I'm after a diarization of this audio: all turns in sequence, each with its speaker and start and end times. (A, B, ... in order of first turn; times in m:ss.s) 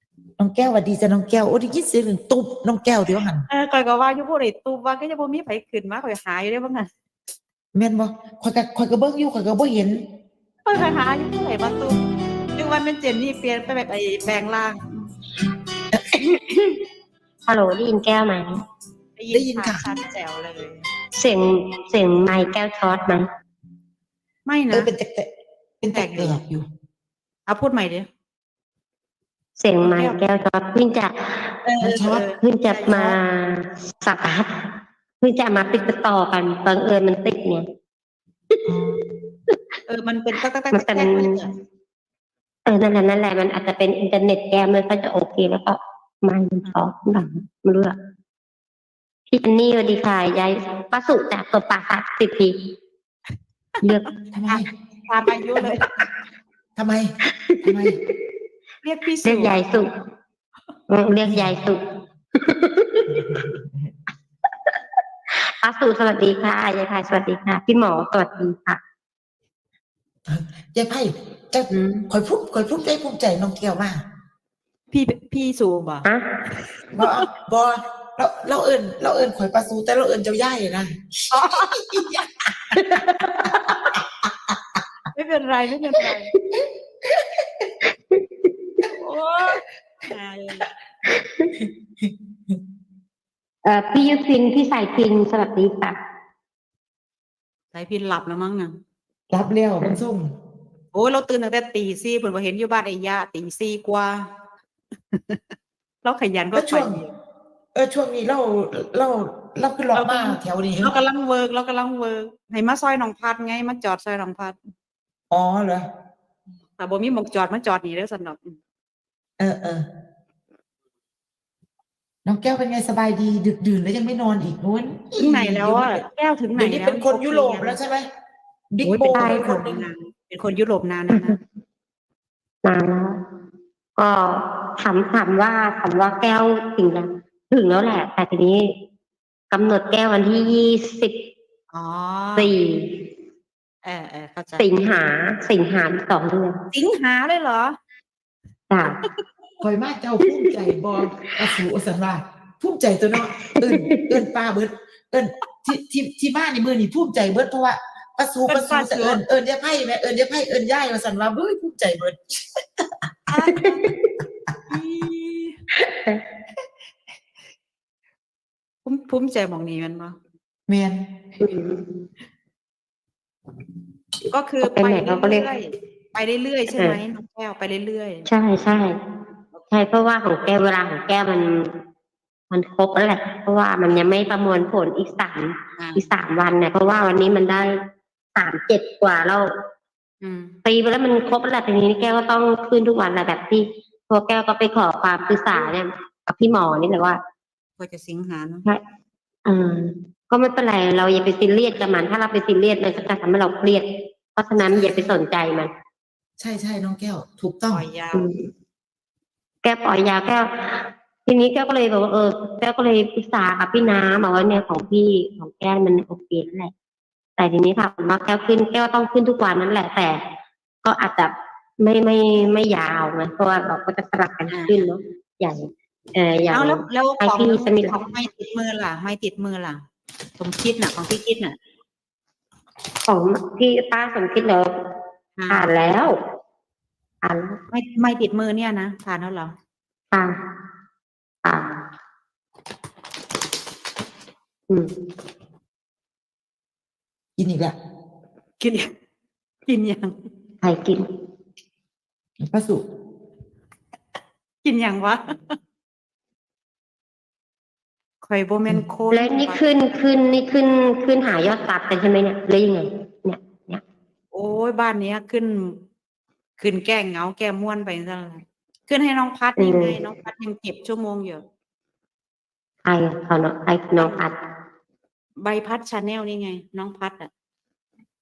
0:00.4-0:03.4 A
0:03.5-0:06.9 B
0:07.7-0:10.0 A
0:10.6-0:12.0 B
0:12.6-0:14.9 B
0:17.5-0:18.6 C
0:19.2-0:20.8 B
0:19.3-0:19.9 A
0:21.1-0:23.3 C
0:24.4-0:24.9 B
0:24.7-0:25.3 A
0:25.8-0:26.6 A
0:25.9-0:26.4 B
0:27.5-0:28.1 B
0:29.6-0:31.6 C
0:29.8-0:30.2 B
0:31.6-0:33.2 B
0:31.8-0:32.3 A
0:32.4-0:34.5 C
0:35.2-0:37.6 C
0:38.7-0:38.9 A
0:39.9-0:41.5 B
0:40.7-0:41.4 C
0:42.6-0:47.9 C
0:49.3-0:52.7 C
0:53.8-0:54.1 C
0:54.3-0:54.7 A
0:54.5-0:55.9 B
0:56.8-0:57.1 A
0:57.3-0:57.9 C
0:57.6-0:58.0 A
0:58.8-0:59.6 B
0:59.2-0:59.9 C
1:00.9-1:01.8 C
1:01.2-1:01.5 A
1:02.3-1:03.2 C
1:05.5-1:08.8 C
1:10.3-1:14.0 A
1:14.9-1:16.1 B
1:16.9-1:20.9 A
1:21.3-1:22.1 B
1:21.9-1:22.2 A
1:22.7-1:23.8 B
1:22.8-1:23.1 C
1:25.1-1:26.3 B
1:29.0-1:30.7 B
1:33.6-1:36.0 C
1:37.7-1:38.7 B
1:39.3-1:40.3 A
1:40.9-1:44.3 B
1:45.1-1:45.4 B
1:46.0-1:47.1 B
1:46.5-1:47.0 A
1:47.7-1:50.9 A
1:50.0-1:54.6 B
1:55.3-1:55.8 A
1:56.8-1:58.6 B
1:59.4-1:59.8 A
2:02.2-2:06.0 A
2:05.2-2:07.8 B
2:06.6-2:08.0 A
2:08.7-2:09.8 A
2:08.8-2:11.4 B
2:09.1-2:09.6 C
2:11.1-2:11.4 C
2:12.6-2:13.2 C
2:14.0-2:18.7 C
2:19.5-2:21.2 C
2:21.7-2:22.5 B
2:22.4-2:22.9 C
2:23.8-2:24.7 B
2:24.6-2:26.6 C
2:26.7-2:27.8 B
2:28.7-2:29.0 C
2:28.8-2:29.1 B
2:29.6-2:42.2 A
2:30.3-2:30.6 C
2:33.4-2:34.2 C
2:38.5-2:39.2 B
2:43.3-2:43.8 B
2:43.4-2:44.0 C
2:44.7-2:45.6 B
2:45.8-2:46.2 C
2:48.8-2:50.2 B
2:50.7-2:51.0 A
2:51.4-2:52.0 C
2:54.3-2:58.3 B
2:54.6-2:55.4 C
2:58.2-2:59.0 C
2:59.7-3:01.8 C
3:02.5-3:07.8 C
3:05.8-3:06.1 B
3:08.3-3:09.5 C
3:10.2-3:10.6 B
3:10.6-3:17.2 C
3:17.8-3:18.6 B
3:19.4-3:25.7 C
3:26.4-3:27.8 A
3:27.7-3:28.2 B
3:28.1-3:28.5 C
3:29.6-3:36.7 C
3:37.4-3:40.2 C
3:40.8-3:48.0 C
3:44.5-3:44.8 B
3:46.5-3:49.8 B
3:50.4-3:51.6 B
3:53.1-3:54.7 C
3:55.4-3:55.7 B
3:55.5-3:56.2 C
3:57.2-3:57.6 C
3:57.7-3:59.5 B
4:00.1-4:00.4 C
4:01.4-4:01.7 C
4:07.4-4:07.7 A
4:08.6-4:08.9 B
4:09.7-4:10.1 B
4:10.6-4:11.0 C
4:12.4-4:12.8 A
4:14.6-4:15.5 B
4:18.2-4:19.7 B
4:19.1-4:23.8 C
4:24.3-4:25.8 B
4:26.6-4:31.4 B
4:29.6-4:30.0 C
4:32.8-4:34.4 C
4:34.0-4:34.2 B
4:35.4-4:37.3 B